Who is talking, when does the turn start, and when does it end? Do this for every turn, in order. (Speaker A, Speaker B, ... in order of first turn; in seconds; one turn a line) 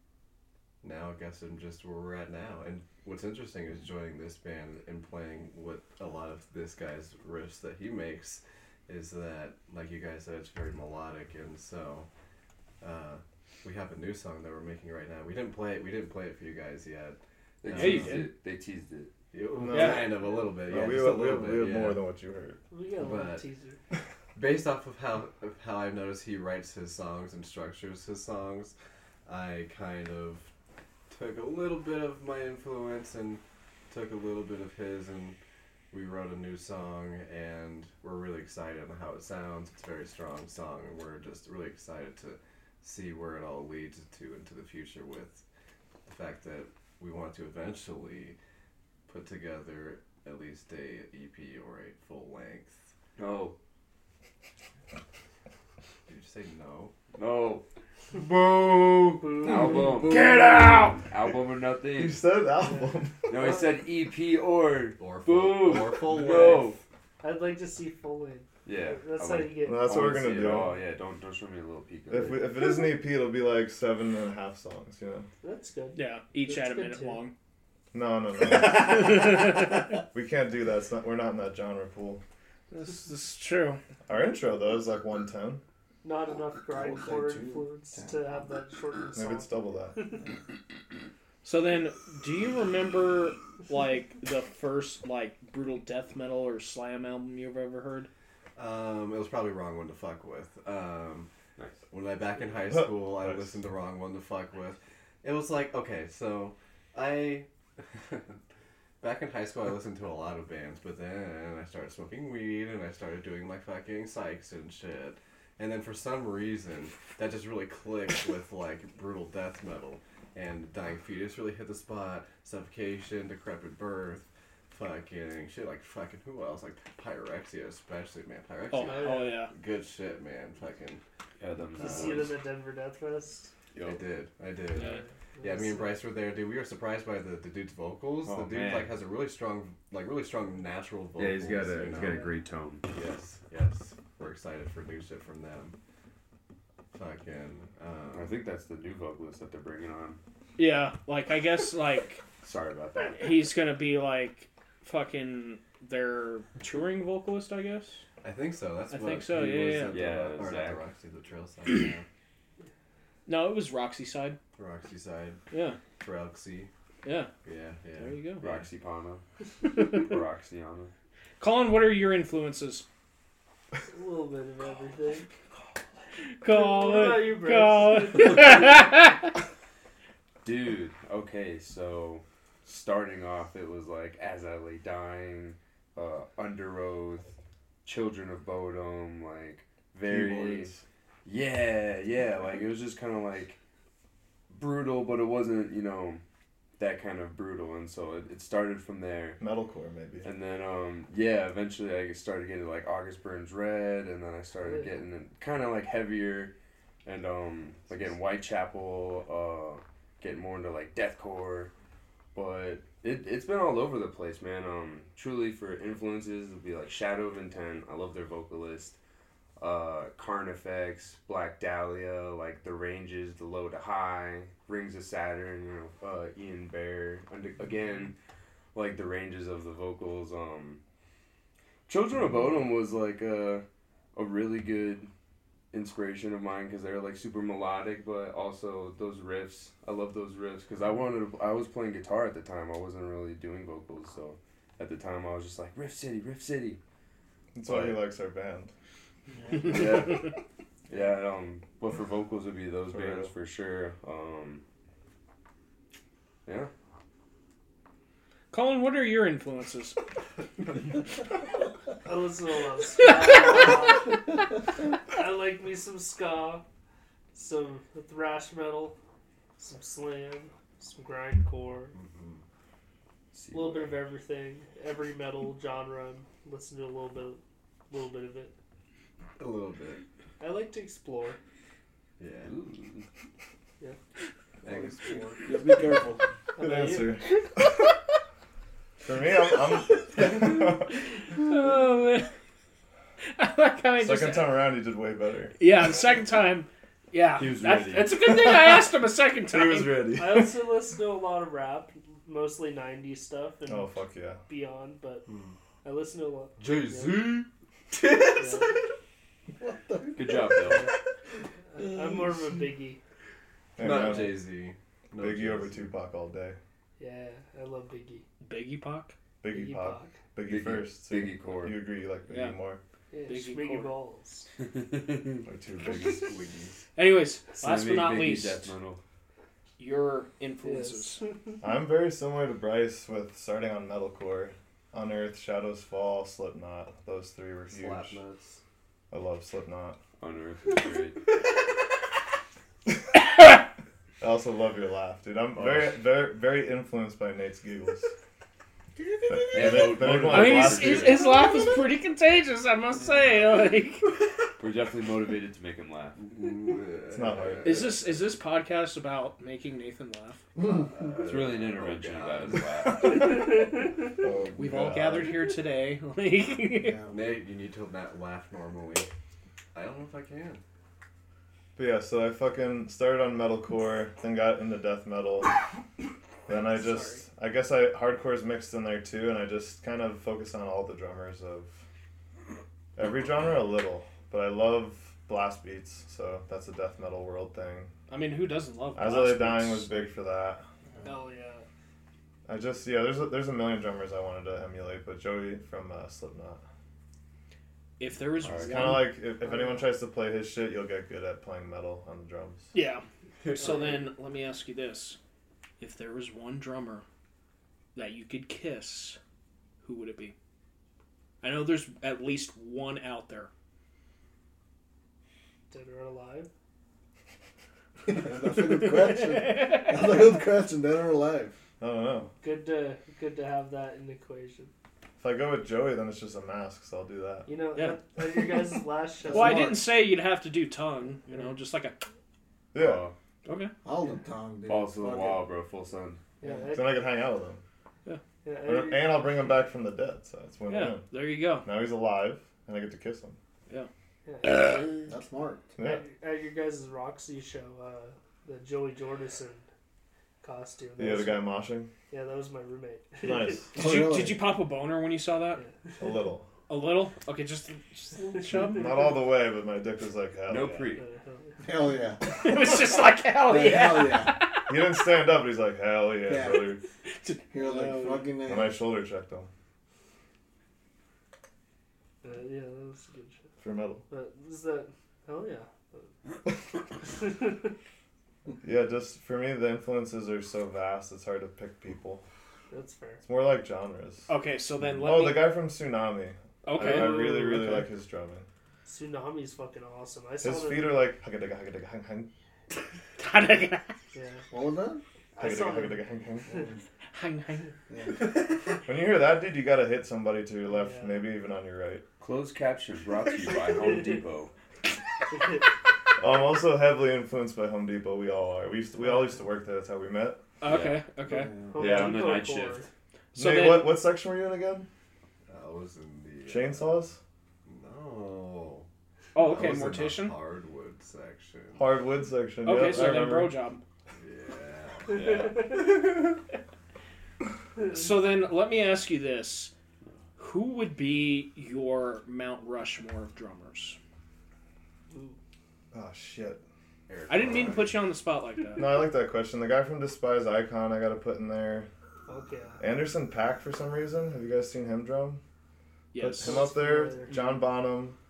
Speaker A: 0.8-12.1
Speaker A: 12.8-18.3
Speaker B: 17.6-19.1
Speaker C: 17.7-18.3
Speaker A: 19.3-22.0
Speaker D: 19.6-22.6
Speaker C: 19.7-20.1
Speaker E: 22.7-23.8
Speaker A: 22.9-23.4
Speaker A: 24.3-28.7
Speaker A: 29.2-30.5
Speaker A: 31.1-35.4
Speaker A: 35.9-45.4
Speaker A: 46.0-48.4
Speaker A: 49.1-52.8
Speaker B: 53.2-53.5
Speaker A: 56.1-56.9
Speaker B: 57.1-57.6
Speaker B: 58.1-62.2
Speaker E: 59.2-60.0
Speaker D: 61.9-63.5
Speaker E: 62.6-63.7
Speaker B: 63.3-66.8
Speaker A: 65.0-66.8
Speaker E: 67.2-69.9
Speaker B: 68.6-72.4
Speaker D: 69.6-70.8
Speaker D: 72.1-75.3
Speaker E: 75.4-77.2
Speaker C: 75.9-77.3
Speaker D: 77.9-82.2
Speaker C: 78.9-79.5
Speaker C: 82.7-83.8
Speaker D: 84.1-85.6
Speaker E: 86.0-90.2
Speaker F: 86.7-88.4
Speaker D: 89.1-90.0
Speaker C: 91.4-98.1
Speaker A: 98.5-101.3
Speaker B: 101.6-101.8
Speaker A: 101.9-108.4
Speaker D: 102.7-103.6
Speaker A: 109.0-131.0
Speaker C: 128.7-129.5
Speaker E: 128.8-129.3
Speaker B: 131.4-132.3
Speaker A: 131.7-132.3
Speaker E: 131.7-133.5
Speaker B: 133.7-134.0
Speaker A: 133.8-142.3
Speaker E: 134.8-136.0
Speaker B: 138.2-138.9
Speaker B: 141.2-142.9
Speaker A: 142.9-145.8
Speaker A: 146.9-148.3
Speaker B: 148.1-150.2
Speaker C: 150.6-152.2
Speaker B: 152.4-153.4
Speaker C: 153.1-158.0
Speaker A: 158.2-162.1
Speaker C: 158.9-160.0
Speaker B: 159.9-160.8
Speaker C: 163.2-164.4
Speaker A: 164.6-165.4
Speaker C: 165.5-165.8
Speaker A: 166.0-166.7
Speaker C: 167.0-167.3
Speaker A: 167.4-168.7
Speaker C: 168.0-168.4
Speaker B: 168.4-169.2
Speaker B: 169.8-170.9
Speaker C: 171.4-172.8
Speaker E: 173.9-175.3
Speaker C: 176.4-179.3
Speaker E: 176.4-179.0
Speaker B: 180.4-187.3
Speaker B: 187.8-190.7
Speaker D: 190.0-190.8
Speaker B: 191.2-193.6
Speaker B: 194.5-196.2
Speaker B: 196.8-199.4
Speaker D: 199.4-200.3
Speaker B: 200.2-206.5
Speaker E: 204.6-204.9
Speaker B: 207.0-211.7
Speaker B: 212.3-219.0
Speaker B: 219.6-228.1
Speaker B: 228.7-230.8
Speaker B: 231.9-235.1
Speaker B: 235.7-246.8
Speaker D: 247.5-248.7
Speaker B: 247.7-248.0
Speaker F: 249.3-250.1
Speaker B: 249.6-250.3
Speaker B: 250.9-254.6
Speaker D: 252.9-253.3
Speaker B: 256.4-256.7
Speaker C: 258.5-260.0
Speaker E: 262.0-264.2
Speaker E: 265.1-266.6
Speaker E: 267.3-268.9
Speaker E: 269.6-271.9
Speaker A: 271.9-272.4
Speaker B: 273.3-274.0
Speaker E: 273.5-278.5
Speaker A: 279.4-280.0
Speaker E: 280.4-281.4
Speaker A: 282.2-282.6
Speaker B: 282.4-283.1
Speaker A: 284.6-285.6
Speaker F: 285.4-286.2
Speaker E: 286.6-287.2
Speaker D: 286.6-287.8
Speaker D: 289.0-290.9
Speaker C: 291.4-292.3
Speaker C: 293.3-294.6
Speaker D: 294.0-295.6
Speaker C: 295.6-300.1
Speaker B: 297.4-298.2
Speaker D: 298.3-298.9
Speaker D: 299.5-300.8
Speaker E: 300.1-305.2
Speaker D: 303.6-304.4
Speaker A: 305.2-305.5
Speaker E: 305.8-307.3
Speaker A: 306.6-308.7
Speaker E: 308.4-308.7
Speaker F: 309.6-310.5
Speaker B: 310.1-310.9
Speaker E: 311.7-313.0
Speaker D: 313.8-314.4
Speaker A: 313.8-315.9
Speaker D: 315.2-316.6
Speaker E: 317.0-318.2
Speaker C: 318.4-319.1
Speaker D: 319.4-322.8
Speaker E: 319.5-320.2
Speaker B: 320.4-321.8
Speaker C: 322.3-322.6
Speaker E: 323.1-324.5
Speaker C: 323.3-323.9
Speaker B: 324.6-326.2
Speaker D: 325.4-326.3
Speaker A: 326.2-326.7
Speaker C: 326.9-328.7
Speaker B: 327.6-329.0
Speaker C: 329.8-331.2
Speaker E: 330.6-331.5
Speaker D: 331.6-338.2
Speaker A: 337.7-338.6
Speaker D: 339.1-340.0
Speaker B: 340.2-341.2
Speaker D: 344.2-348.1
Speaker B: 345.6-345.9
Speaker F: 349.0-349.8
Speaker D: 349.3-351.3
Speaker B: 349.5-351.4
Speaker C: 350.2-354.1
Speaker B: 354.6-356.2
Speaker A: 356.2-358.1
Speaker D: 357.1-357.9
Speaker C: 357.6-360.4
Speaker A: 360.6-363.1
Speaker F: 360.6-360.9
Speaker B: 361.2-363.6
Speaker E: 363.0-364.1
Speaker D: 364.2-365.4
Speaker C: 364.6-367.0
Speaker F: 366.7-367.2
Speaker A: 367.1-369.1
Speaker A: 369.7-370.6
Speaker D: 371.8-375.6
Speaker D: 376.5-381.8
Speaker D: 382.9-387.9
Speaker C: 388.1-390.1
Speaker D: 388.9-390.6
Speaker E: 391.0-391.7
Speaker D: 392.5-396.6
Speaker C: 398.0-399.2
Speaker D: 398.5-402.7
Speaker C: 402.7-403.0
Speaker A: 403.4-404.1
Speaker C: 403.5-405.2
Speaker C: 405.8-407.0
Speaker C: 407.9-409.2
Speaker C: 409.8-410.3
Speaker C: 411.4-413.5
Speaker E: 415.7-416.5
Speaker F: 418.1-421.6
Speaker C: 418.6-420.1
Speaker D: 421.8-422.3
Speaker E: 422.4-424.7
Speaker D: 425.2-427.5
Speaker E: 427.5-429.7
Speaker C: 427.7-428.6
Speaker F: 429.2-429.8
Speaker C: 429.3-432.0
Speaker D: 432.7-433.1
Speaker B: 432.7-433.1
Speaker C: 433.4-433.7
Speaker F: 433.8-435.4
Speaker B: 434.7-436.2
Speaker E: 436.4-437.2
Speaker F: 436.4-436.7
Speaker D: 436.7-437.6
Speaker E: 438.4-439.4
Speaker D: 438.6-441.1
Speaker C: 440.7-441.7
Speaker D: 441.6-443.4
Speaker E: 444.2-445.0
Speaker F: 445.1-445.7
Speaker D: 445.8-446.1
Speaker E: 445.8-449.6
Speaker E: 450.4-451.5
Speaker D: 451.0-451.9
Speaker E: 452.1-453.6
Speaker D: 453.2-453.7
Speaker F: 453.7-454.5
Speaker C: 453.7-455.6
Speaker E: 455.6-455.9
Speaker D: 456.0-456.5
Speaker C: 456.7-459.1
Speaker D: 458.4-460.9
Speaker E: 458.6-458.9
Speaker B: 460.5-461.0
Speaker E: 460.9-461.6
Speaker F: 461.6-462.5
Speaker C: 462.3-464.9
Speaker F: 463.4-464.3
Speaker D: 464.7-466.8
Speaker F: 466.2-466.7
Speaker C: 467.1-468.3
Speaker F: 467.5-468.8
Speaker D: 468.4-469.5
Speaker E: 472.2-473.4
Speaker D: 473.6-474.0
Speaker E: 474.1-476.1
Speaker E: 477.0-477.7
Speaker D: 478.6-482.2
Speaker E: 482.7-483.2
Speaker D: 483.2-484.3
Speaker C: 484.3-485.5
Speaker D: 484.9-488.5
Speaker C: 486.6-487.8
Speaker E: 486.8-487.7
Speaker E: 488.8-491.1
Speaker D: 490.4-492.3
Speaker C: 493.2-493.9
Speaker E: 494.1-494.4
Speaker F: 494.5-495.0
Speaker E: 495.4-496.7
Speaker D: 495.4-496.6
Speaker F: 496.5-496.8
Speaker C: 497.1-497.7
Speaker F: 497.9-498.3
Speaker A: 498.2-498.7
Speaker D: 498.8-502.0
Speaker E: 500.7-501.3
Speaker B: 502.2-504.5
Speaker E: 503.5-504.2
Speaker E: 505.3-505.6
Speaker D: 506.2-510.4
Speaker C: 510.6-511.5
Speaker B: 510.6-511.0
Speaker F: 511.2-512.1
Speaker E: 511.7-512.9
Speaker B: 511.8-512.9
Speaker C: 513.3-513.9
Speaker D: 513.4-514.9
Speaker A: 515.5-517.0
Speaker D: 516.5-517.2
Speaker A: 517.6-518.9
Speaker C: 519.3-520.4
Speaker A: 519.4-522.0
Speaker D: 521.8-523.6
Speaker C: 522.6-523.8
Speaker A: 524.2-526.3
Speaker E: 525.1-526.0
Speaker B: 525.1-525.6
Speaker E: 527.8-528.0
Speaker C: 527.9-529.7
Speaker C: 530.4-534.0
Speaker E: 535.1-535.4
Speaker D: 535.9-536.6
Speaker A: 537.1-538.0
Speaker C: 537.3-539.0
Speaker D: 538.8-541.9
Speaker E: 542.3-542.8
Speaker D: 542.8-545.4
Speaker C: 546.1-546.7
Speaker D: 546.1-548.2
Speaker E: 546.4-547.4